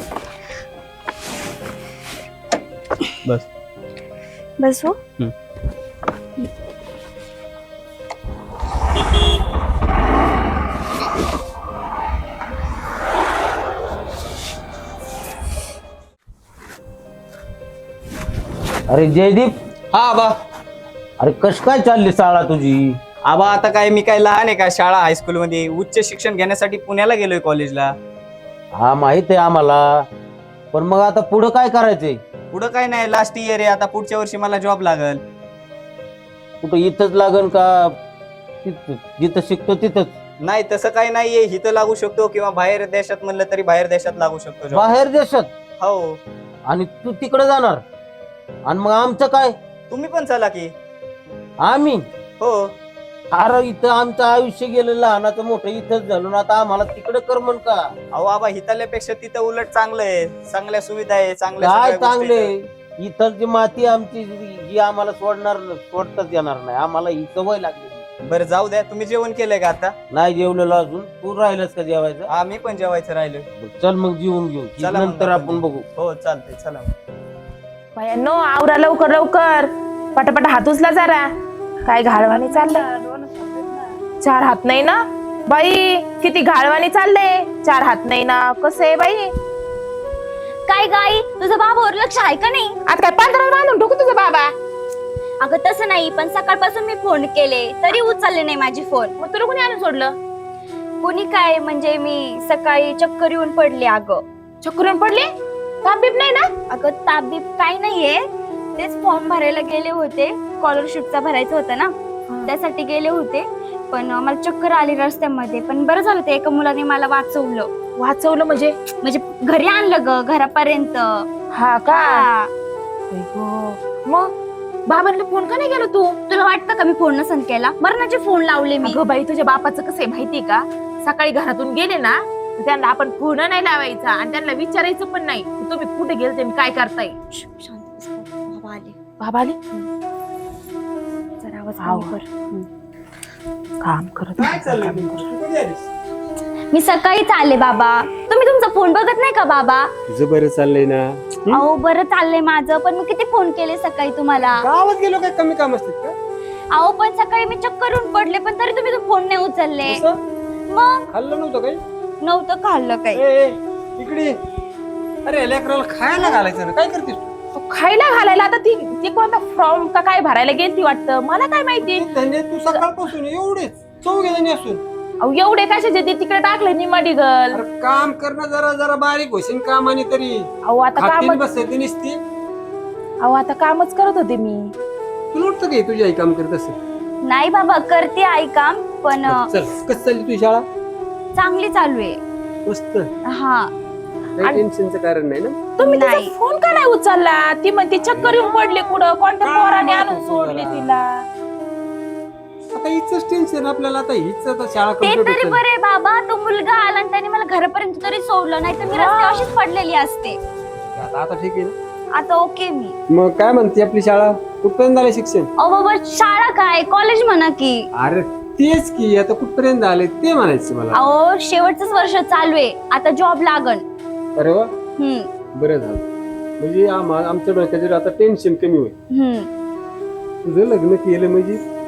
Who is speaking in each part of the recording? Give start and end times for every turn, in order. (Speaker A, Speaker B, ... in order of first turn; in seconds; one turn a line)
Speaker A: 4.6-5.0
Speaker B: 18.9-19.5
Speaker B: 21.2-23.0
Speaker C: 23.2-27.9
Speaker B: 28.8-29.9
Speaker B: 30.7-32.2
Speaker C: 32.5-35.2
Speaker B: 36.6-37.9
Speaker B: 38.6-40.1
Speaker C: 40.4-44.9
Speaker B: 44.7-45.5
Speaker C: 45.8-46.2
Speaker B: 46.7-47.8
Speaker B: 48.7-49.5
Speaker C: 49.9-50.7
Speaker B: 51.6-52.0
Speaker C: 52.4-52.7
Speaker B: 53.3-57.8
Speaker C: 58.1-62.5
Speaker B: 61.6-68.0
Speaker C: 68.3-69.9
Speaker B: 70.1-72.3
Speaker C: 72.3-73.5
Speaker B: 73.6-75.8
Speaker C: 74.8-76.9
Speaker D: 78.0-81.3
Speaker D: 81.8-82.8
Speaker A: 82.0-84.0
Speaker D: 84.2-89.3
Speaker A: 90.7-92.8
Speaker D: 92.9-94.5
Speaker A: 95.4-99.1
Speaker D: 99.2-100.2
Speaker A: 101.0-104.2
Speaker D: 104.6-105.3
Speaker D: 105.8-106.5
Speaker A: 106.7-108.2
Speaker A: 108.8-111.9
Speaker A: 112.5-117.7
Speaker D: 118.0-118.8
Speaker A: 119.0-121.2
Speaker D: 121.5-122.2
Speaker A: 121.9-122.5
Speaker D: 123.1-124.3
Speaker D: 124.9-126.2
Speaker A: 126.3-129.0
Speaker D: 128.8-137.2
Speaker A: 137.3-138.9
Speaker D: 139.2-139.9
Speaker A: 141.4-142.6
Speaker D: 141.8-142.2
Speaker D: 143.8-145.0
Speaker E: 144.4-145.8
Speaker A: 146.7-149.9
Speaker E: 150.1-151.7
Speaker A: 151.5-154.7
Speaker E: 154.3-156.1
Speaker A: 156.7-160.0
Speaker E: 159.8-160.2
Speaker A: 160.7-161.0
Speaker E: 161.1-161.8
Speaker A: 162.2-163.2
Speaker E: 163.1-164.3
Speaker E: 165.2-167.3
Speaker D: 167.5-172.1
Speaker E: 171.8-174.8
Speaker D: 175.2-177.6
Speaker E: 177.5-180.4
Speaker D: 180.7-181.4
Speaker E: 180.9-182.2
Speaker D: 183.2-184.7
Speaker E: 185.3-186.8
Speaker A: 187.2-189.5
Speaker E: 189.2-190.6
Speaker A: 191.3-192.2
Speaker E: 192.7-193.1
Speaker A: 193.3-193.7
Speaker E: 194.4-195.6
Speaker A: 195.8-196.3
Speaker D: 195.8-201.1
Speaker E: 198.0-198.5
Speaker E: 199.4-200.9
Speaker E: 202.7-205.6
Speaker A: 205.0-210.4
Speaker D: 208.9-209.5
Speaker E: 210.9-211.7
Speaker A: 212.1-212.9
Speaker E: 213.1-215.5
Speaker A: 215.6-217.8
Speaker E: 218.0-221.1
Speaker A: 220.9-223.8
Speaker E: 224.3-224.7
Speaker A: 225.0-225.3
Speaker E: 225.5-226.0
Speaker E: 226.6-228.9
Speaker A: 229.1-229.5
Speaker E: 230.4-231.6